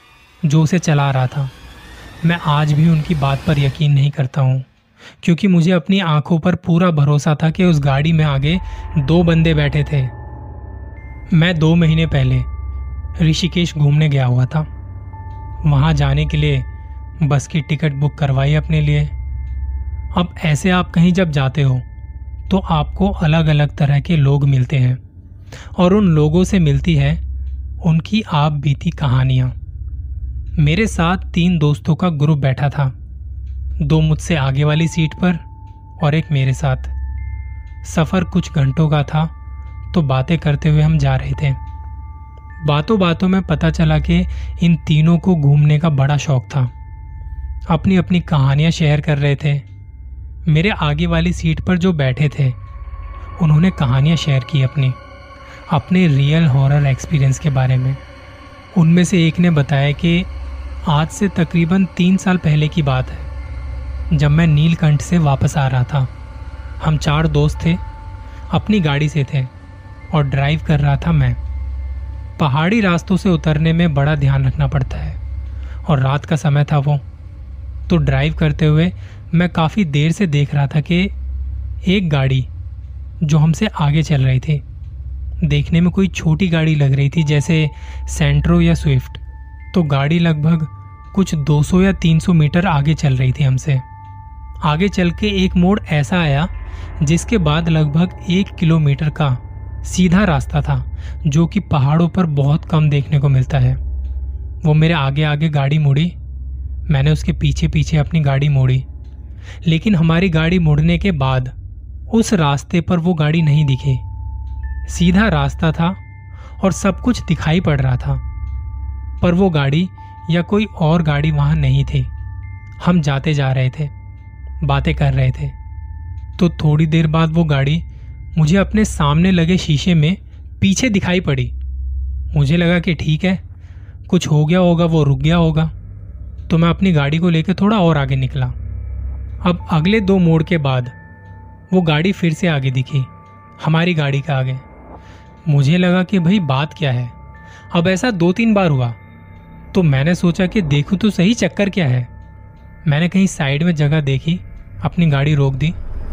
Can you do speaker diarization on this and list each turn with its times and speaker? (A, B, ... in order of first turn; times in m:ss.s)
0:00.4-0:01.5 A
0:02.2-0:04.7 A
0:05.2-0:10.1 A
0:11.3-0:12.5 A
0:13.2-0:14.7 A
0:15.6-0:16.7 A
0:17.2-0:19.1 A
0:20.1-0:21.8 A
0:22.5-0:25.0 A
0:25.8-0:27.2 A
0:27.8-0:29.6 A
0:30.6-0:32.9 A
0:33.8-0:35.4 A
0:36.0-0:36.9 A
0:37.8-0:39.3 A
0:39.9-0:41.6 A
0:42.6-0:46.7 A
0:47.7-0:49.6 A
0:50.5-0:52.6 A
0:53.4-0:55.0 A
0:55.7-0:58.0 A
0:58.8-1:00.3 A
1:00.9-1:03.3 A
1:04.1-1:06.1 A
1:06.8-1:07.8 A
1:08.5-1:09.5 A
1:10.1-1:11.4 A
1:12.4-1:15.2 A
1:15.9-1:17.0 A
1:17.9-1:21.1 A
1:21.8-1:22.5 A
1:23.2-1:24.6 A
1:25.4-1:29.2 A
1:29.7-1:33.8 A
1:34.6-1:43.8 A
1:44.6-1:46.2 A
1:46.9-1:48.8 A
1:49.6-1:51.5 A
1:52.1-1:54.0 A
1:54.9-1:56.0 A
1:56.6-1:58.2 A
1:59.2-2:02.1 A
2:02.8-2:03.9 A
2:04.6-2:05.6 A
2:06.4-2:07.8 A
2:08.4-2:11.5 A
2:12.3-2:13.4 A
2:14.1-2:15.7 A
2:16.5-2:18.6 A
2:19.4-2:21.0 A
2:21.7-2:23.1 A
2:23.6-2:24.6 A
2:25.4-2:27.1 A
2:27.7-2:29.0 A
2:29.7-2:32.1 A
2:32.8-2:35.8 A